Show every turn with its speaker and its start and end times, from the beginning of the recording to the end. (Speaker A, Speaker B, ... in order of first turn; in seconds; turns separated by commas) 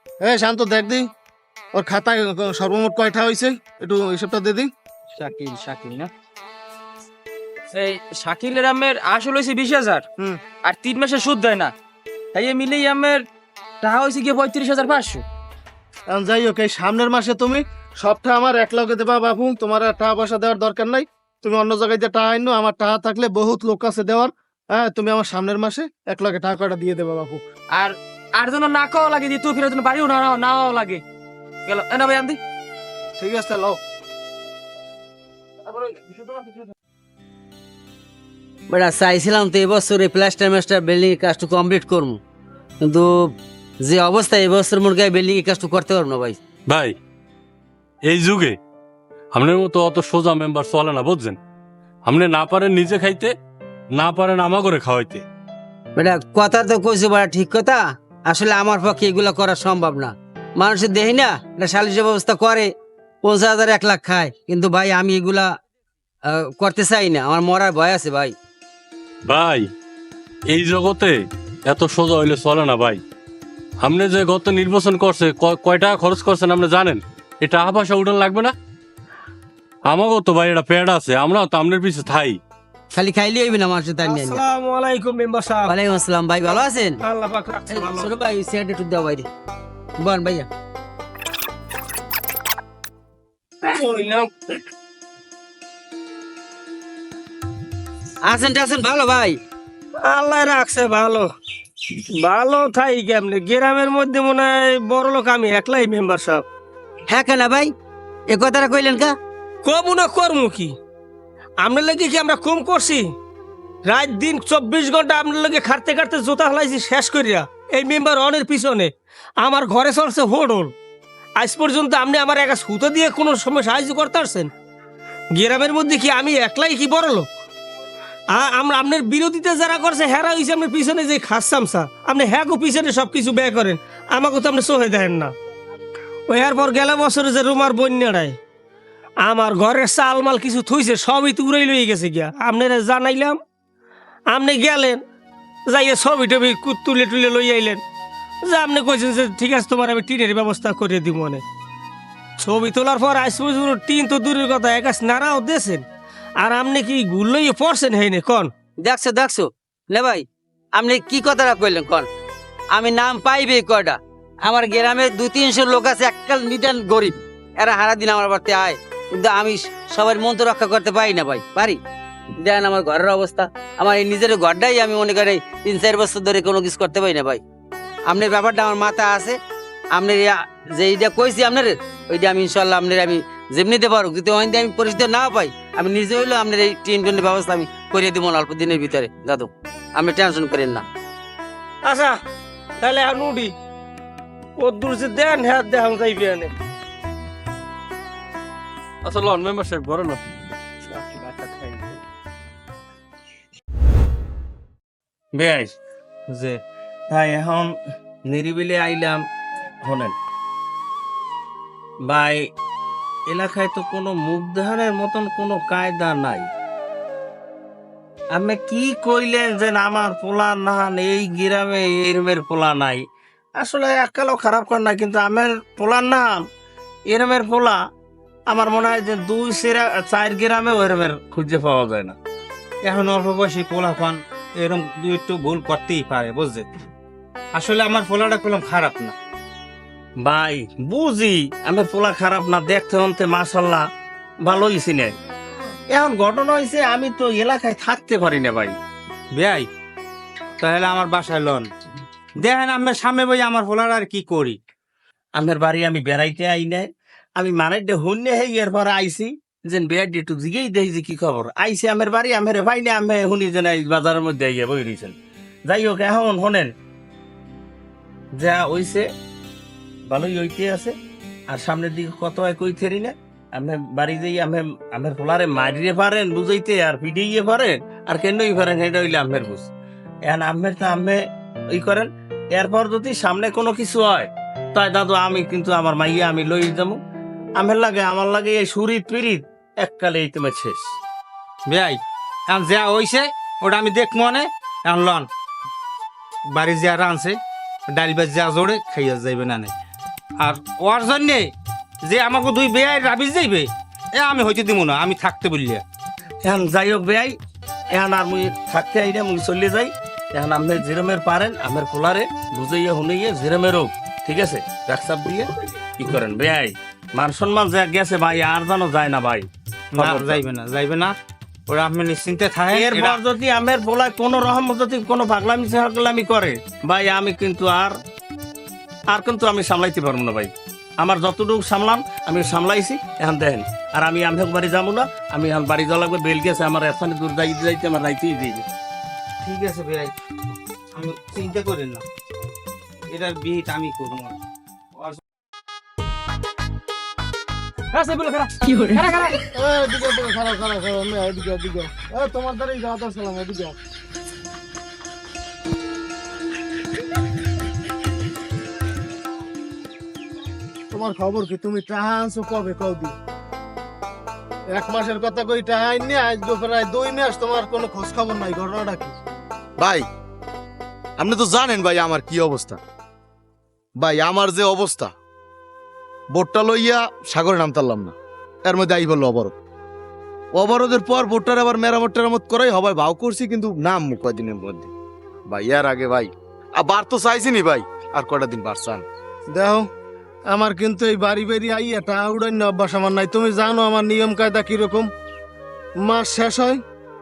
Speaker A: 0.2-1.1, Speaker A: 1.7-4.7, Speaker B: 5.2-6.1, Speaker B: 7.7-10.1, Speaker B: 10.6-11.7, Speaker B: 12.3-13.2, Speaker B: 13.8-15.2, Speaker A: 16.1-27.4, Speaker B: 27.7-31.0, Speaker B: 31.7-32.4, Speaker A: 33.2-33.8, Speaker B: 35.7-36.4, Speaker C: 38.7-42.2, Speaker C: 42.8-46.4, Speaker D: 46.7-47.0, Speaker D: 48.0-48.6, Speaker D: 49.3-51.4, Speaker D: 52.0-53.3, Speaker D: 53.9-55.2, Speaker C: 56.0-62.7, Speaker C: 63.2-65.5, Speaker C: 66.3-68.3, Speaker D: 69.3-69.7, Speaker D: 70.5-73.0, Speaker D: 73.8-78.5, Speaker D: 79.9-82.4, Speaker C: 82.9-84.4, Speaker E: 84.0-85.7, Speaker C: 85.6-87.0, Speaker E: 87.0-88.1, Speaker C: 87.7-89.3, Speaker C: 90.0-90.5, Speaker E: 93.6-94.3, Speaker C: 98.2-99.4, Speaker E: 100.0-101.3, Speaker E: 102.1-106.4, Speaker C: 107.1-107.7, Speaker C: 108.3-109.1, Speaker E: 109.6-110.7, Speaker E: 111.6-113.1, Speaker E: 113.9-120.7, Speaker E: 121.4-124.5, Speaker E: 125.4-127.3, Speaker E: 128.3-135.3, Speaker E: 136.3-138.4, Speaker E: 139.2-143.4, Speaker E: 144.3-145.0, Speaker E: 145.7-147.8, Speaker E: 148.5-151.4, Speaker E: 152.4-155.8, Speaker E: 156.4-158.5, Speaker C: 158.8-162.1, Speaker C: 162.7-171.8, Speaker C: 172.4-177.4, Speaker C: 178.1-179.4, Speaker C: 179.9-190.9, Speaker E: 191.8-192.2, Speaker E: 192.8-193.5, Speaker E: 194.6-196.5, Speaker D: 199.0-200.2, Speaker B: 201.0-201.8, Speaker F: 205.3-205.8, Speaker F: 206.3-207.7, Speaker F: 208.3-209.2, Speaker F: 209.8-210.2, Speaker F: 212.1-212.4, Speaker F: 213.3-216.5, Speaker F: 218.3-223.0, Speaker F: 223.6-226.4, Speaker F: 227.1-227.8, Speaker F: 228.5-232.2, Speaker G: 232.8-236.7, Speaker G: 237.5-239.1, Speaker F: 240.2-243.8, Speaker F: 244.4-245.1, Speaker F: 245.9-248.8, Speaker G: 249.3-249.7, Speaker G: 250.6-251.7, Speaker G: 252.4-254.6, Speaker F: 255.4-265.2, Speaker F: 265.7-266.7, Speaker F: 268.4-269.1, Speaker F: 270.1-271.0, Speaker F: 271.5-279.7, Speaker F: 280.3-281.2, Speaker F: 281.7-287.0, Speaker F: 287.6-290.9, Speaker G: 291.7-295.3, Speaker G: 296.6-297.4, Speaker G: 297.9-299.7, Speaker G: 300.4-301.5, Speaker G: 302.1-305.8, Speaker F: 306.4-307.3, Speaker F: 307.9-320.4, Speaker G: 320.0-321.1, Speaker G: 321.7-323.2, Speaker F: 322.7-327.9, Speaker F: 329.1-330.5, Speaker F: 331.0-338.6, Speaker G: 339.4-340.1, Speaker G: 340.9-342.0, Speaker G: 343.1-344.4, Speaker B: 347.9-349.4, Speaker A: 349.5-353.8, Speaker A: 360.9-363.1, Speaker A: 364.7-369.1, Speaker H: 369.8-370.1, Speaker H: 371.2-372.8, Speaker H: 374.0-375.1, Speaker H: 376.3-378.1, Speaker H: 378.6-379.5, Speaker H: 380.6-384.9, Speaker H: 385.5-389.0, Speaker A: 389.5-389.9, Speaker A: 390.5-395.1, Speaker A: 396.0-396.8